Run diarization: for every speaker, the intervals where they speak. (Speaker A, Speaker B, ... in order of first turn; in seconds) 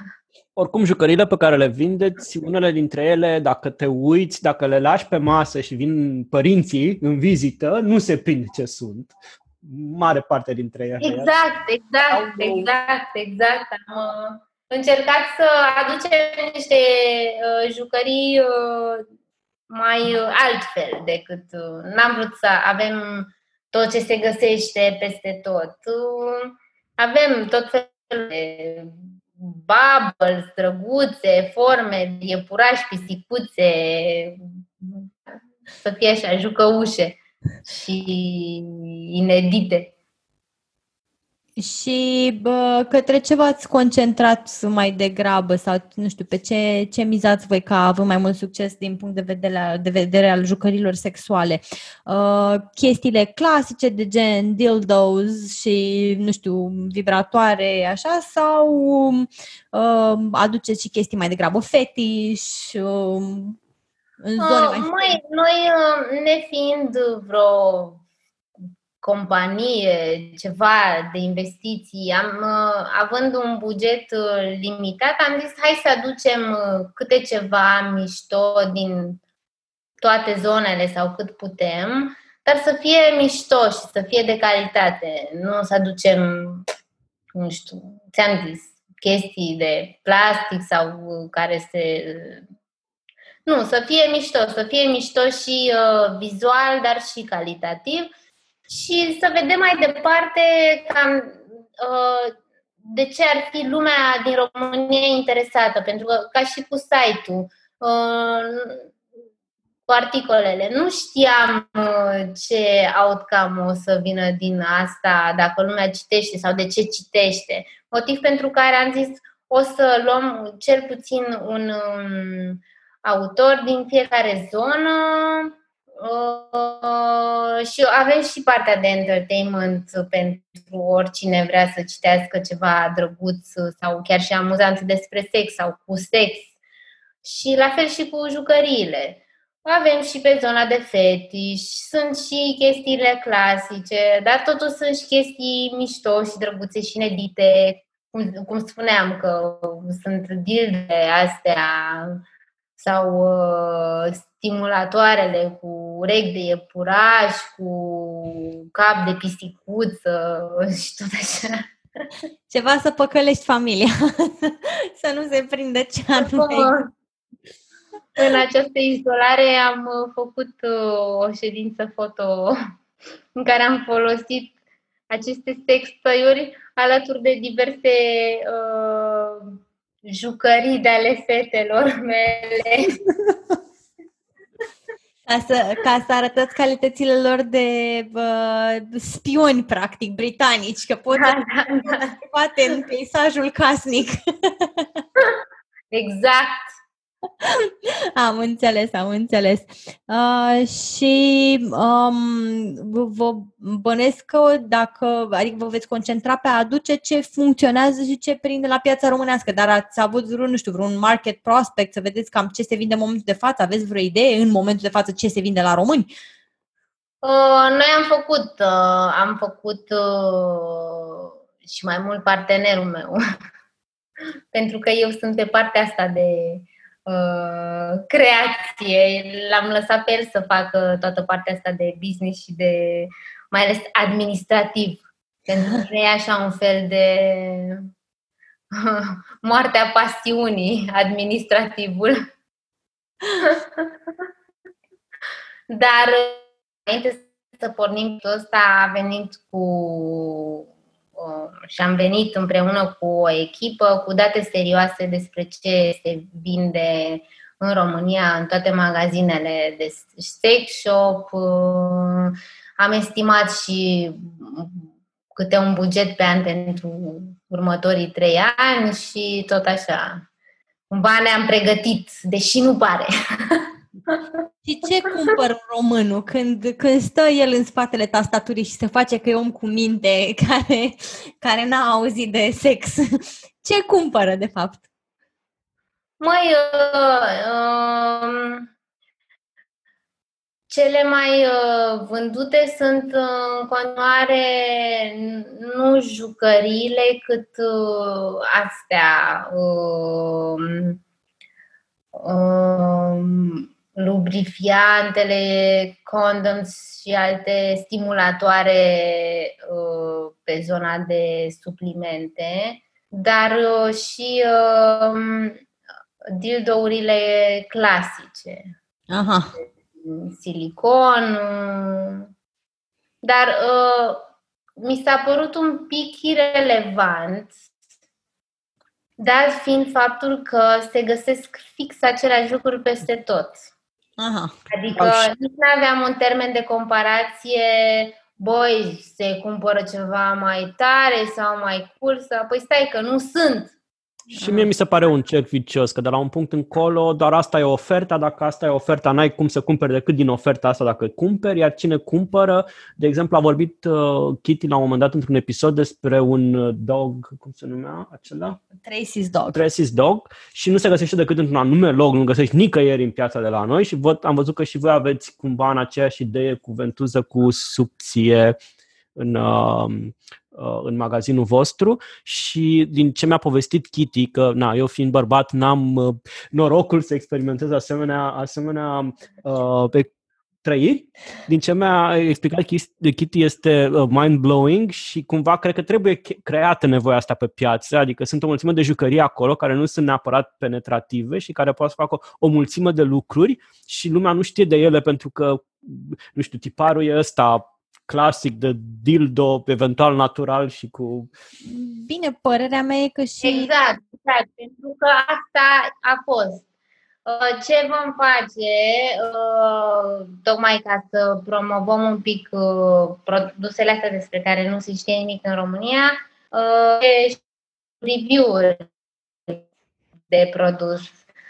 Speaker A: 0.6-11.3, 12.1-12.7, 344.4-358.6, 359.5-368.5, 369.2-380.1, 380.6-401.3
Speaker B: 11.0-19.0, 19.7-35.1, 35.8-39.9, 64.4-68.0, 69.0-79.2, 80.0-86.7, 87.3-92.4, 93.5-98.1, 98.7-108.8, 109.9-136.5, 137.2-152.2, 152.8-161.6, 166.2-166.9, 168.2-172.6, 173.3-174.5, 175.1-183.0, 191.1-192.1, 195.9-196.7, 217.2-223.2, 224.5-237.8, 238.7-242.2, 243.4-243.9, 245.7-270.2, 270.9-274.2, 286.2-288.7, 290.7-301.0, 302.1-315.6, 316.3-318.7, 320.0-322.3, 323.2-324.2, 324.8-327.6, 329.2-333.7, 334.7-343.7, 403.4-406.6, 407.2-417.4, 418.0-418.9, 420.3-421.1
Speaker C: 41.6-63.6, 64.2-65.2, 162.5-166.7, 185.2-195.0, 197.4-216.1, 274.6-283.0, 283.6-284.8, 319.1-319.5, 334.2-334.5, 344.3-344.7, 358.8-359.6, 401.6-403.7